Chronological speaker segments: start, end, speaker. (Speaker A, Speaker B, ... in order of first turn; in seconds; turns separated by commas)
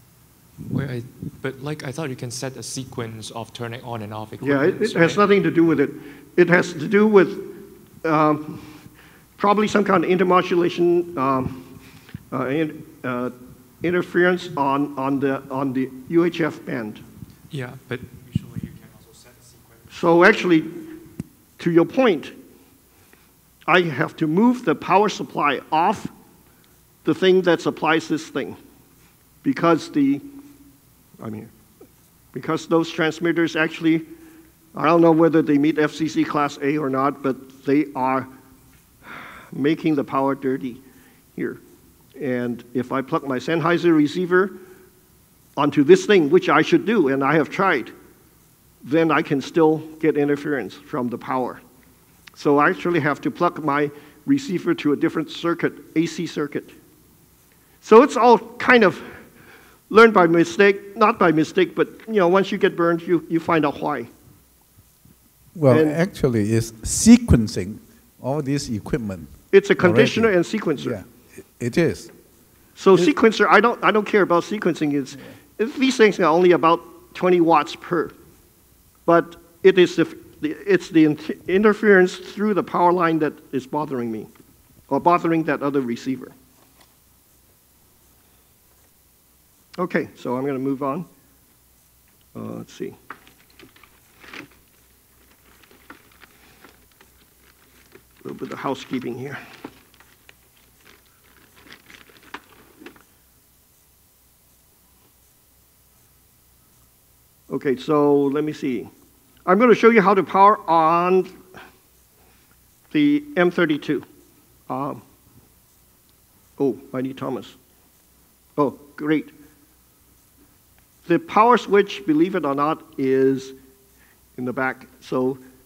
Speaker A: 0.7-5.2, Speaker B: 4.4-8.7, Speaker B: 9.4-11.6, Speaker B: 12.3-17.0, Speaker A: 17.5-19.6, Speaker B: 19.9-20.8, Speaker B: 21.6-22.3, Speaker B: 23.7-26.1, Speaker B: 27.0-28.6, Speaker B: 29.4-30.2, Speaker B: 31.2-31.5, Speaker B: 32.3-34.0, Speaker B: 34.7-38.3, Speaker B: 39.1-40.8, Speaker B: 42.1-44.6, Speaker B: 45.6-47.9, Speaker B: 48.8-51.6, Speaker B: 52.4-56.7, Speaker B: 57.8-59.1, Speaker B: 59.9-64.1, Speaker C: 65.5-72.1, Speaker B: 65.7-66.0, Speaker B: 69.5-71.0, Speaker B: 72.8-78.1, Speaker B: 79.0-84.3, Speaker B: 84.9-86.3, Speaker B: 89.8-91.1, Speaker B: 92.3-93.0, Speaker B: 98.2-99.4, Speaker B: 107.5-108.9, Speaker B: 109.5-111.3, Speaker B: 112.9-114.0, Speaker B: 114.7-115.0, Speaker B: 116.6-117.5, Speaker B: 118.6-119.3, Speaker B: 121.0-123.5, Speaker B: 124.4-125.4